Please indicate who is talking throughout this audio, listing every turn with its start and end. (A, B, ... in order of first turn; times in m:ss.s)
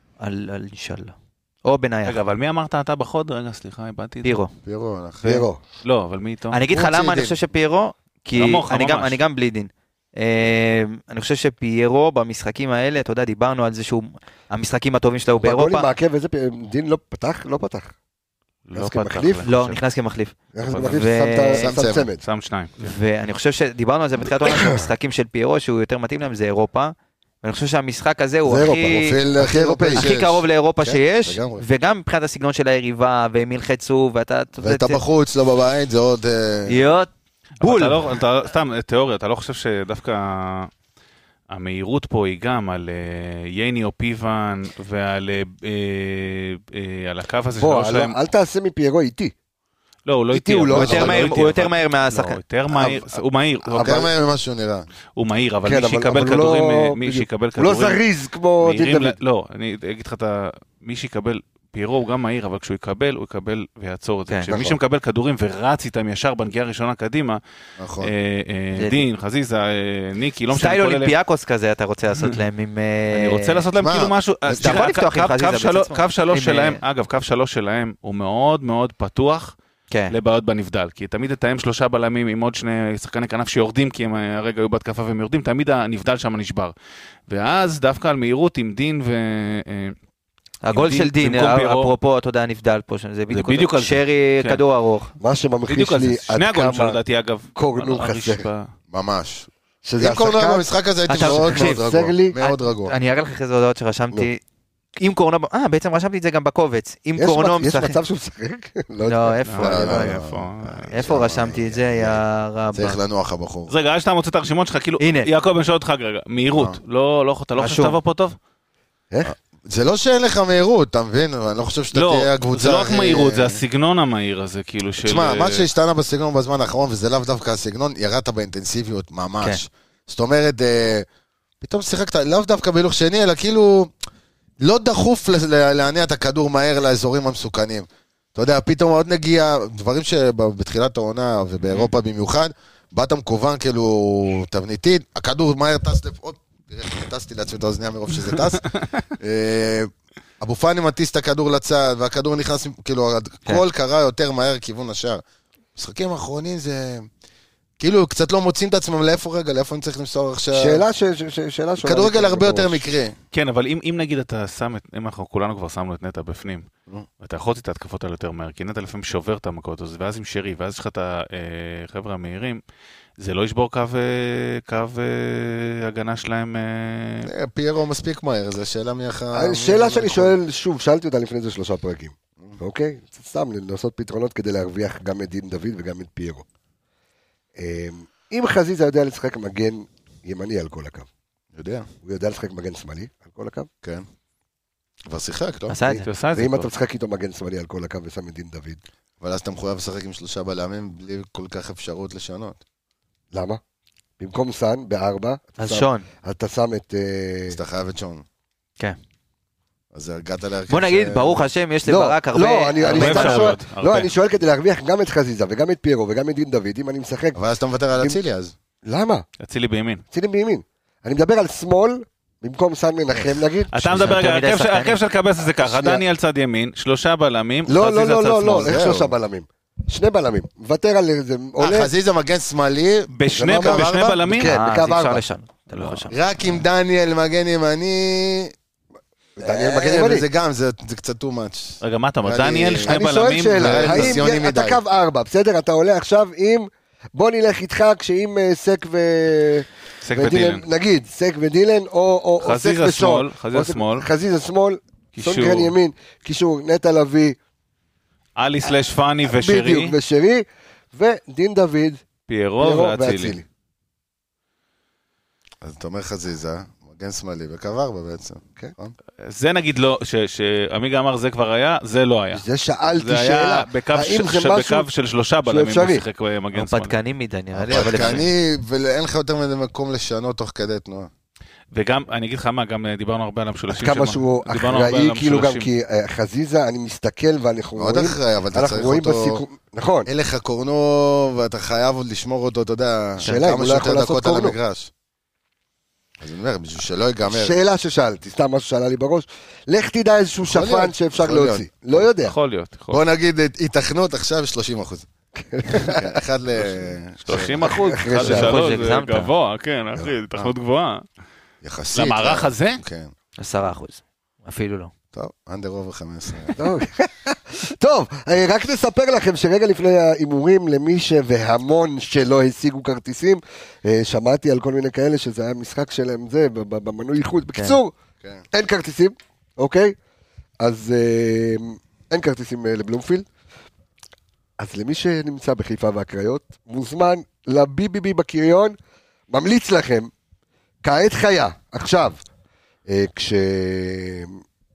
0:00.2-0:02.2 A
0:02.0-0:04.4 B
0:04.2-0:04.5 A
0:04.6-0:05.3 C
0:05.2-0:05.6 D
0:05.8-0:06.6 B
0:06.5-0:15.9 A
0:06.7-0:07.3 C
0:08.3-0:09.2 B
0:15.4-0:17.9 D
0:18.7-0:19.8 B
0:18.8-0:19.4 D
0:19.4-0:21.7 A
0:20.5-0:22.2 D
0:20.7-0:21.0 B
0:21.5-0:22.1 C
0:22.2-0:22.9 B
0:22.8-0:29.2 A
0:24.3-0:24.9 D
0:28.4-0:30.1 D
0:28.9-0:31.6 C
0:30.0-0:35.0 A
0:34.6-0:36.8 C
0:36.7-0:38.0 A
0:37.6-0:40.7 B
0:41.5-0:48.2 B
0:47.6-0:49.3 D
0:50.0-0:54.0 B
0:50.3-0:51.3 D
0:50.7-0:52.4 A
0:53.7-0:54.1 D
0:53.8-0:54.9 C
0:55.2-0:58.0 B
0:55.6-0:59.2 D
0:58.6-1:07.4 B
1:04.5-1:04.8 C
1:07.8-1:08.1 C
1:08.0-1:11.1 B
1:08.7-1:09.0 A
1:10.5-1:13.6 A
1:13.1-1:19.5 B
1:13.7-1:14.8 C
1:14.6-1:16.8 A
1:19.9-1:20.1 A
1:20.1-1:26.7 B
1:27.3-1:29.9 B
1:30.6-1:35.1 A
1:30.7-1:31.9 B
1:33.3-1:34.6 B
1:35.2-1:37.0 D
1:35.7-1:38.7 B
1:37.6-1:38.4 D
1:38.9-1:42.9 C
1:39.8-1:40.6 D
1:41.1-1:41.8 A
1:41.2-1:42.4 D
1:42.4-1:44.4 A
1:45.0-1:48.0 A
1:47.2-1:50.0 D
1:49.0-1:50.2 A
1:49.4-1:50.9 B
1:49.6-1:53.7 C
1:50.9-1:53.0 A
1:53.7-1:58.4 B
1:55.0-1:55.3 A
1:56.5-1:56.8 C
1:57.6-1:58.0 A
1:59.2-2:03.6 C
2:01.9-2:05.6 B
2:05.0-2:11.0 C
2:11.6-2:13.9 C
2:14.6-2:28.7 C
2:29.2-2:35.2 C
2:35.8-2:37.1 C
2:37.8-2:40.8 C
2:40.5-2:42.9 D
2:41.8-2:43.1 C
2:43.3-2:46.7 B
2:47.2-2:52.6 B
2:53.2-2:57.3 B
2:57.2-3:00.4 C
2:59.3-3:06.4 D
3:07.6-3:11.1 D
3:11.5-3:11.9 C
3:12.0-3:13.7 D
3:15.1-3:15.7 C
3:15.7-3:16.1 A
3:15.8-3:18.8 D
3:16.0-3:16.7 B
3:19.2-3:22.6 C
3:23.3-3:23.6 D
3:24.2-3:27.6 D
3:25.6-3:26.0 A
3:27.5-3:28.2 C
3:29.9-3:31.4 C
3:30.7-3:33.6 A
3:31.8-3:37.4 D
3:32.8-3:34.1 B
3:37.3-3:38.5 C
3:38.8-3:39.2 D
3:39.4-3:40.0 B
3:40.1-3:44.2 D
3:43.7-3:48.8 B
3:43.8-3:45.0 A
3:45.6-3:46.0 D
3:47.7-3:51.9 D
3:48.5-3:49.1 C
3:51.6-3:54.2 C
3:53.1-3:54.5 B
3:53.4-3:55.2 D
3:54.4-3:56.1 A
3:55.7-3:56.0 B
3:56.1-3:58.5 C
3:59.4-4:04.8 C
3:59.4-4:00.2 D
4:01.8-4:04.2 B
4:02.8-4:17.4 D
4:10.0-4:10.6 B
4:12.4-4:14.1 B
4:15.1-4:15.7 B
4:18.4-4:20.0 B
4:19.3-4:22.0 D
4:22.3-4:23.4 B
4:22.6-4:23.4 D
4:25.6-4:28.9 C
4:29.2-4:36.9 B
4:32.3-4:34.9 D
4:35.4-4:36.0 D
4:36.5-4:38.2 A
4:37.6-4:41.1 C
4:37.7-4:38.2 B
4:41.7-4:45.7 B
4:43.7-4:50.1 D
4:47.8-4:49.4 C
4:50.0-4:54.9 C
4:53.2-4:54.6 D
4:53.2-4:53.5 A
4:56.2-4:57.6 C
4:57.3-5:02.3 D
5:00.4-5:02.1 C
5:02.2-5:03.0 B
5:02.9-5:05.1 C
5:05.4-5:06.1 D
5:05.7-5:07.8 C
5:07.2-5:11.0 B
5:07.4-5:08.5 D
5:08.2-5:09.3 A
5:11.6-5:13.1 C
5:11.9-5:12.8 B
5:13.4-5:14.9 A
5:15.1-5:16.6 C
5:16.6-5:27.9 D
5:28.5-5:29.9 D
5:30.6-5:33.2 D
5:34.6-5:38.8 D
5:39.3-5:40.1 D
5:40.8-5:42.2 D
5:42.9-5:44.4 D